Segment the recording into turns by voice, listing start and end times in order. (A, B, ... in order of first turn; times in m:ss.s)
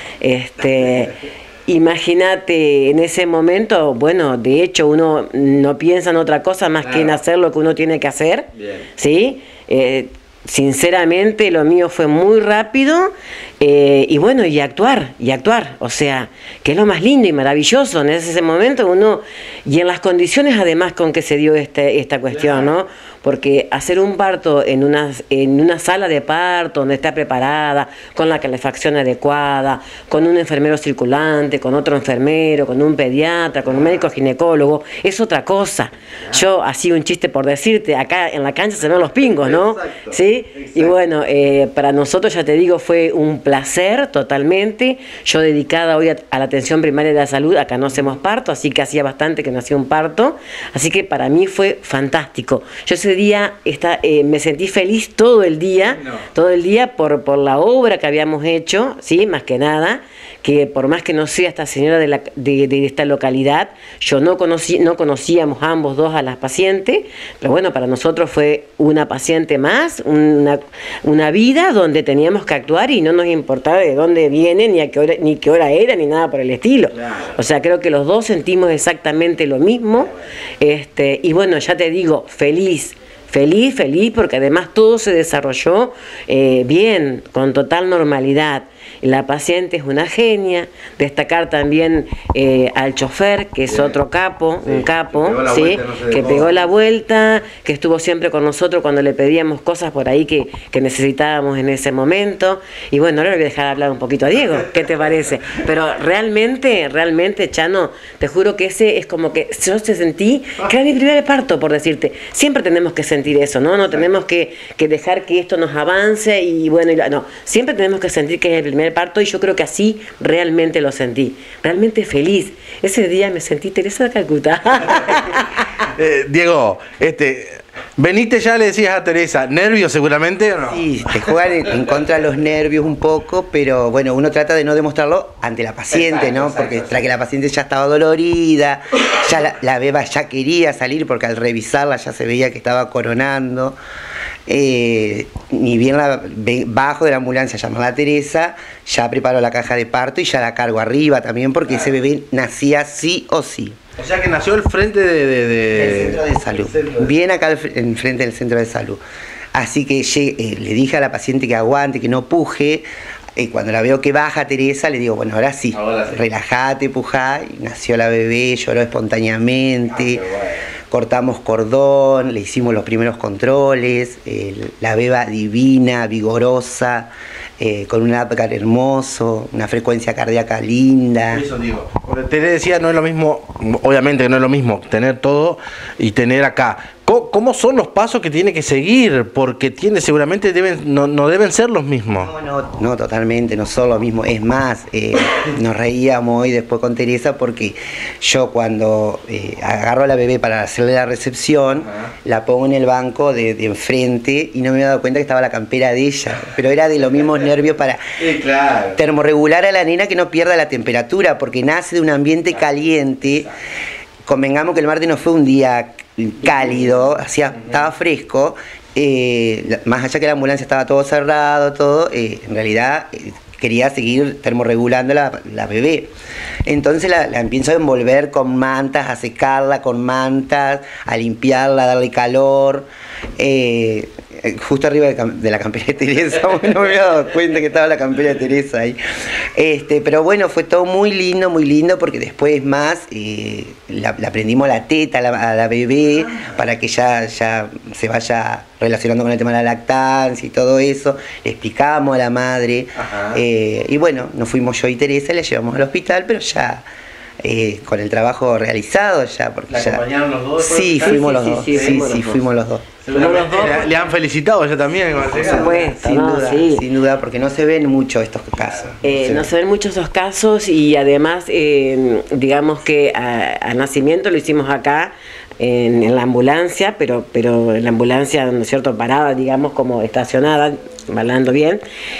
0:00.2-2:05.6 A
0:06.8-0:07.1 B
0:39.4-0:40.9 B
1:34.6-1:36.5 B
2:05.8-2:10.8 B
2:10.6-2:23.8 C
2:16.1-2:16.9 B
2:24.5-2:33.8 C
2:31.7-2:31.9 B
2:34.0-2:37.1 B
2:35.7-2:39.0 C
2:39.5-2:42.8 C
2:43.4-2:50.2 C
2:45.7-2:46.2 B
2:49.9-2:50.6 B
2:50.9-3:01.4 C
3:01.3-3:12.3 B
3:12.2-3:28.1 C
3:28.2-3:29.0 B
3:28.9-3:33.5 C
3:34.2-3:46.1 C
3:46.6-3:52.9 C
3:53.4-3:59.0 C
3:59.6-4:16.8 C
4:06.2-4:06.5 B
4:13.0-4:13.4 B
4:17.4-4:20.0 C
4:19.7-4:22.0 B
4:20.6-4:22.9 C
4:21.0-4:22.4 A
4:23.0-4:25.7 B
4:23.1-4:24.0 A
4:25.2-4:29.5 C
4:25.3-4:26.8 A
4:28.6-4:28.9 B
4:29.0-4:41.8 A